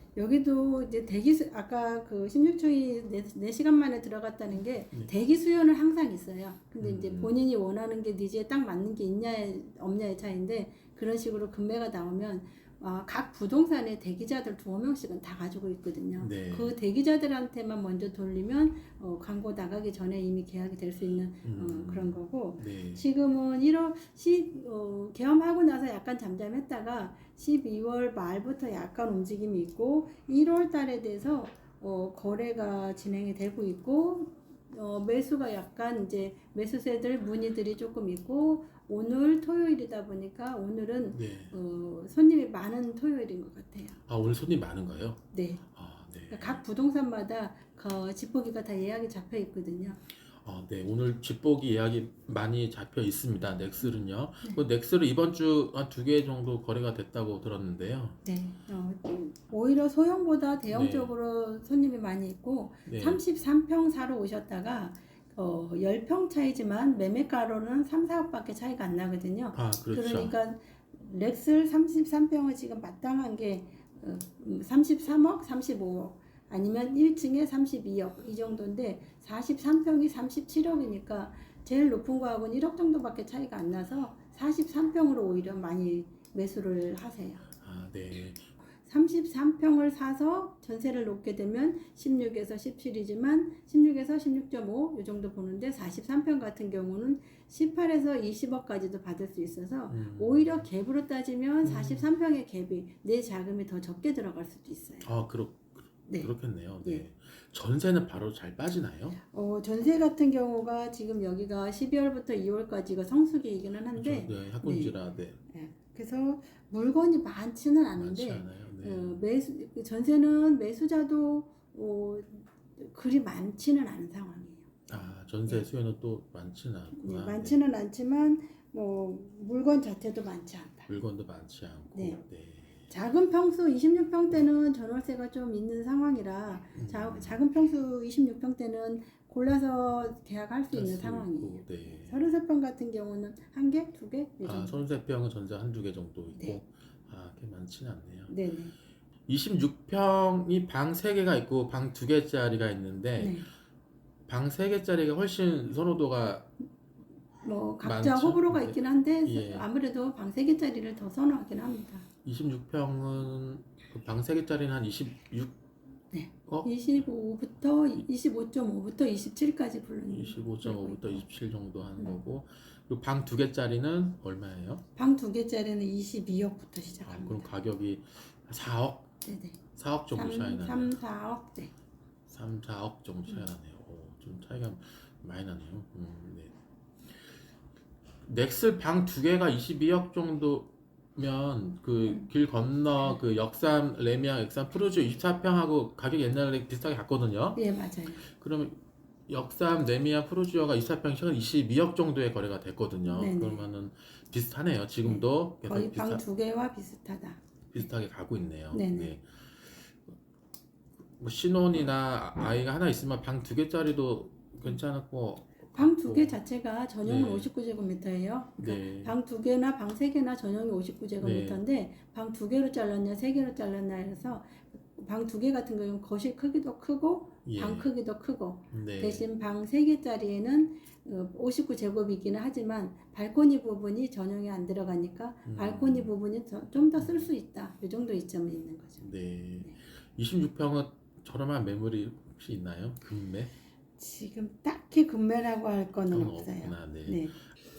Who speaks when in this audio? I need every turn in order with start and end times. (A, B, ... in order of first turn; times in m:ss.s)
0:00.2-0:44.0 A
0:06.8-0:07.3 B
0:16.2-0:16.8 B
0:21.4-0:23.0 B
0:41.1-0:41.6 B
0:44.1-0:46.6 B
0:45.3-0:45.6 A
0:46.3-0:50.0 A
0:50.4-0:58.2 B
0:58.2-1:27.4 A
1:00.7-1:01.1 B
1:02.9-1:03.2 B
1:09.5-1:10.4 B
1:27.6-1:28.5 B
1:28.8-1:45.1 A
1:39.9-1:40.7 B
1:41.6-1:42.1 B
1:45.0-1:49.2 B
1:49.3-1:55.0 A
1:54.0-1:55.4 B
1:55.5-2:04.7 A
1:58.0-1:59.2 B
2:04.9-2:07.6 B
2:06.9-2:10.9 A
2:10.9-2:12.8 B
2:11.9-2:12.2 A
2:12.9-2:24.8 A
2:16.7-2:17.4 B
2:20.7-2:22.2 B
2:24.4-2:28.3 B
2:28.3-2:28.7 A
2:29.3-2:33.4 B
2:33.2-2:33.5 A
2:34.3-2:36.5 B
2:37.4-2:42.0 A
2:37.8-2:39.7 B
2:42.2-2:45.5 B
2:46.1-2:51.2 A
2:50.1-2:54.8 B
2:55.0-2:57.5 A
2:57.1-2:59.1 B
2:59.2-2:59.6 A
2:59.7-3:01.0 B
3:00.1-3:01.7 A
3:02.3-3:06.5 B
3:08.2-3:17.6 B
3:17.6-3:18.2 A
3:18.2-3:26.2 B
3:23.1-3:23.7 A
3:25.0-3:27.8 A
3:27.7-3:29.9 B
3:28.7-3:29.2 A
3:31.2-3:36.4 B
3:35.7-3:59.1 A
3:37.0-3:37.5 B
3:38.6-3:39.2 B
3:41.2-3:41.6 B
3:47.4-3:47.9 B
3:48.7-3:49.3 B
3:55.4-3:56.1 B
3:57.0-3:57.3 B
3:59.0-4:03.5 B
4:04.0-4:07.4 A
4:06.1-4:07.6 B